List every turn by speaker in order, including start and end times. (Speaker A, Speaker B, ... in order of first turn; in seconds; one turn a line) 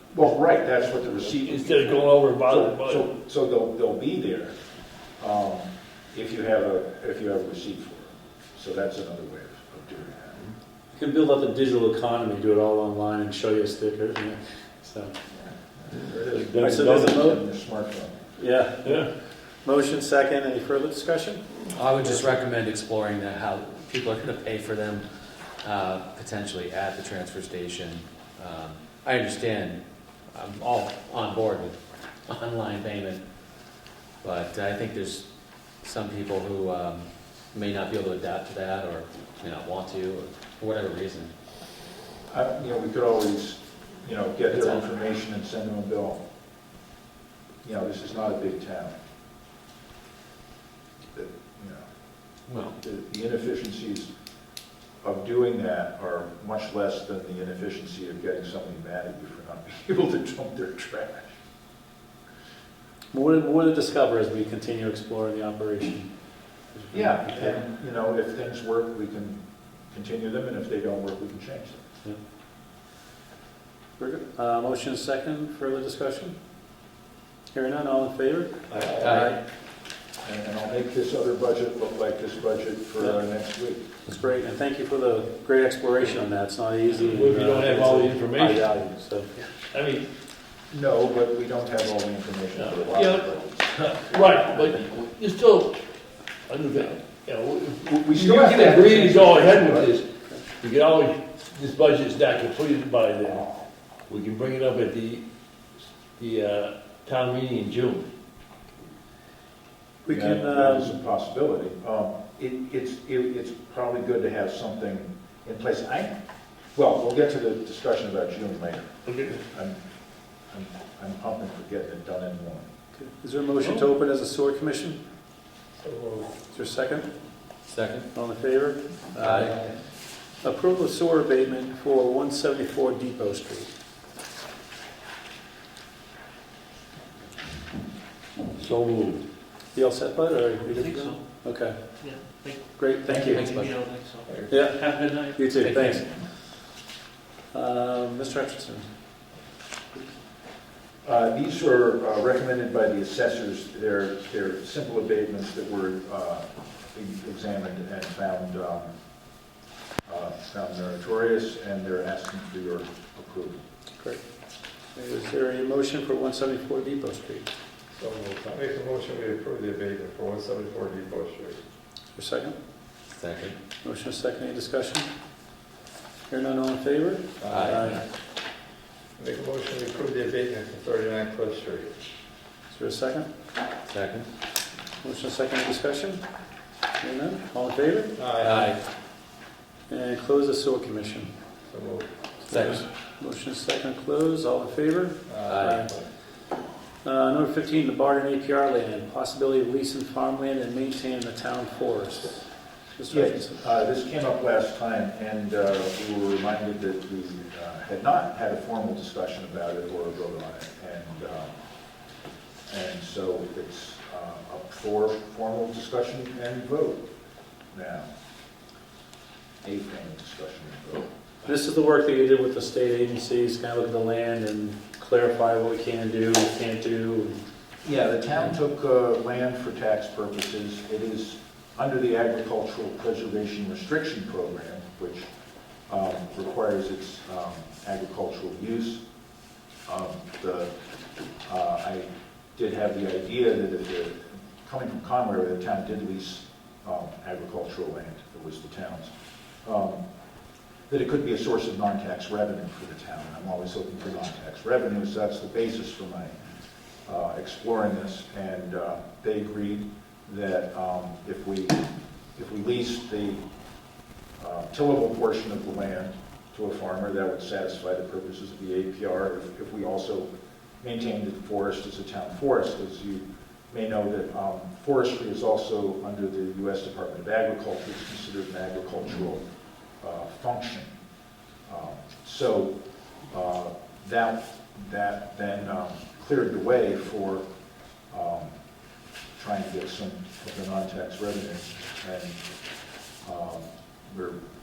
Speaker A: 0.1-2.0
Speaker B: 1.2-3.1
Speaker A: 2.5-4.5
Speaker A: 5.2-10.4
Speaker C: 10.9-15.2
Speaker A: 15.3-18.2
Speaker B: 16.0-17.1
Speaker C: 16.6-17.5
Speaker C: 18.4-19.1
Speaker B: 18.8-19.1
Speaker C: 19.6-21.4
Speaker D: 21.7-25.1
Speaker C: 22.0-22.4
Speaker D: 25.6-33.2
Speaker D: 34.2-35.3
Speaker D: 35.8-41.3
Speaker A: 42.3-46.2
Speaker D: 44.5-44.8
Speaker A: 47.6-48.9
Speaker A: 51.1-51.8
Speaker D: 52.5-52.8
Speaker A: 52.8-54.1
Speaker A: 55.0-61.4
Speaker C: 63.1-66.1
Speaker C: 66.7-67.7
Speaker A: 66.9-71.8
Speaker C: 74.0-76.3
Speaker C: 77.5-79.4
Speaker E: 78.7-79.3
Speaker D: 79.0-79.3
Speaker A: 80.2-83.9
Speaker C: 84.1-89.3
Speaker B: 87.0-88.7
Speaker B: 89.7-90.1
Speaker A: 90.7-94.7
Speaker B: 92.5-95.8
Speaker F: 94.0-94.5
Speaker B: 96.5-105.2
Speaker A: 97.9-99.9
Speaker B: 106.2-108.1
Speaker C: 110.0-111.0
Speaker A: 110.1-116.2
Speaker A: 116.8-119.8
Speaker B: 119.0-119.4
Speaker A: 120.5-122.7
Speaker C: 122.9-125.0
Speaker B: 123.6-123.9
Speaker E: 125.8-126.3
Speaker C: 126.5-127.1
Speaker D: 127.7-128.1
Speaker C: 128.1-129.7
Speaker D: 129.2-129.5
Speaker C: 130.4-133.7
Speaker B: 138.6-139.2
Speaker C: 139.7-141.8
Speaker F: 140.7-141.2
Speaker F: 142.0-145.9
Speaker C: 142.6-143.5
Speaker D: 143.3-143.8
Speaker E: 144.3-144.5
Speaker C: 144.5-146.1
Speaker D: 145.6-146.0
Speaker C: 147.5-148.9
Speaker A: 151.0-158.9
Speaker A: 160.1-163.6
Speaker C: 164.9-167.5
Speaker E: 167.9-171.6
Speaker C: 172.1-172.5
Speaker D: 173.2-173.6
Speaker C: 173.8-175.1
Speaker C: 176.3-178.0
Speaker E: 177.4-178.0
Speaker D: 177.5-178.0
Speaker E: 179.2-181.9
Speaker C: 182.7-183.3
Speaker D: 183.9-184.3
Speaker C: 185.0-186.2
Speaker C: 187.0-188.3
Speaker E: 188.2-188.7
Speaker D: 188.4-188.8
Speaker C: 189.9-191.3
Speaker E: 191.7-192.1
Speaker C: 192.4-195.9
Speaker D: 192.5-192.8
Speaker E: 195.3-196.0
Speaker D: 195.4-195.8
Speaker C: 197.0-203.6
Speaker A: 203.1-211.5
Speaker A: 212.7-217.0
Speaker A: 217.7-218.1
Speaker A: 219.6-221.1
Speaker C: 221.4-227.4
Speaker A: 227.8-235.3
Speaker A: 235.9-239.0
Speaker A: 239.9-240.7
Speaker A: 241.4-249.1
Speaker A: 249.6-250.0
Speaker A: 250.9-256.4
Speaker A: 257.1-261.8
Speaker A: 262.4-263.4
Speaker A: 264.4-270.3
Speaker A: 270.8-279.4
Speaker A: 280.0-280.9
Speaker A: 281.7-282.8
Speaker A: 283.3-287.4
Speaker A: 288.1-288.5
Speaker A: 289.4-292.4
Speaker A: 293.2-294.4